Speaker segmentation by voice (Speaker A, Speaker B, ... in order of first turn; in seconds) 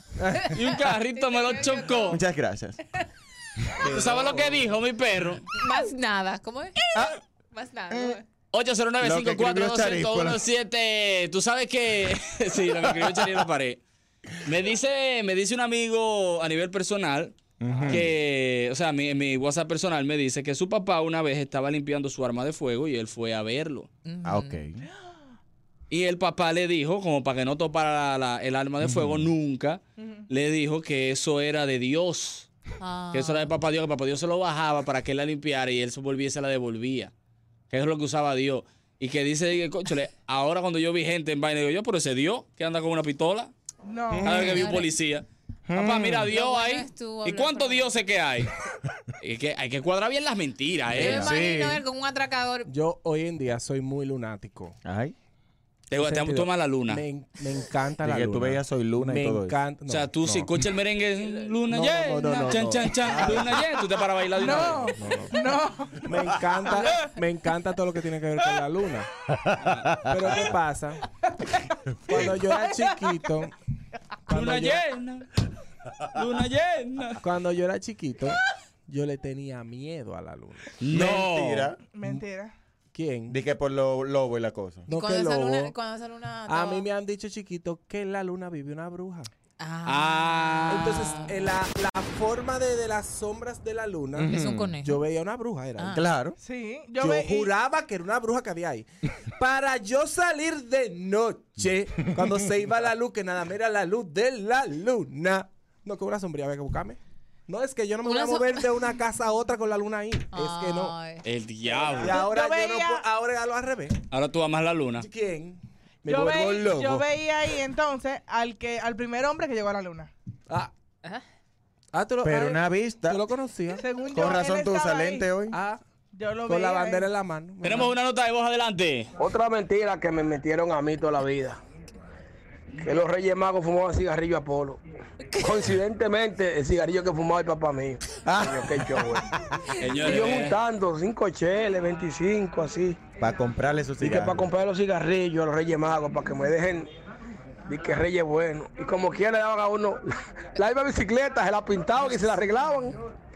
Speaker A: 0.2-0.5, 17.7-18.0, 52.7-54.8, 55.9-60.6, 61.7-63.6, 64.4-65.4, 65.9-69.1, 70.0-71.0, 72.1-73.5, 74.3-74.8, 77.2-80.7, 82.9-83.4, 84.9-85.7, 86.5-89.3, 90.7-96.1, 97.0-111.0, 111.7-114.0, 115.0-117.1, 121.9-123.8, 125.5-125.8, 126.5-127.9
Speaker B: 0.5-2.2, 3.8-5.5, 8.5-13.8, 14.4-17.4, 17.9-23.9, 25.9-32.5, 33.1-37.1, 37.7-43.5, 44.2-48.5, 49.2-51.3, 55.9-57.0, 59.9-65.0, 74.3-75.3, 76.1-77.2, 80.8-81.7, 89.8-91.3, 111.2-112.2, 114.1-115.1, 127.6-129.1, 139.8-140.6
Speaker C: 1.1-2.2, 5.5-6.8, 7.5-8.2, 24.0-24.6, 32.8-33.5, 44.3-44.9, 46.3-48.0, 51.0-52.7, 84.9-86.8, 89.6-91.3, 94.2-95.0, 95.8-96.0, 108.0-108.7, 110.3-111.2
Speaker D: 2.1-2.8, 3.7-4.6, 6.9-7.2, 7.9-8.2, 9.0-10.4, 17.6-18.1, 24.2-24.9, 28.8-29.3, 44.1-44.7, 45.7-46.3, 50.9-51.8, 54.8-55.1, 58.0-59.6, 63.0-63.6, 69.3-70.5, 72.1-72.3, 80.9-81.8, 83.3-84.9, 94.2-94.7, 95.9-96.4, 122.2-123.2, 124.1-125.6, 138.2-139.7, 143.2-144.5
Speaker E: 30.0-30.3, 43.8-44.4, 64.4-66.1, 72.5-73.2, 81.9-82.5, 96.4-97.5, 112.1-113.0, 116.0-120.1, 123.8-125.3, 126.1-127.1
Speaker F: 129.2-131.6, 132.8-134.8, 135.3-139.2, 140.0-143.0, 144.0-146.9, 147.7-150.0, 150.5-152.9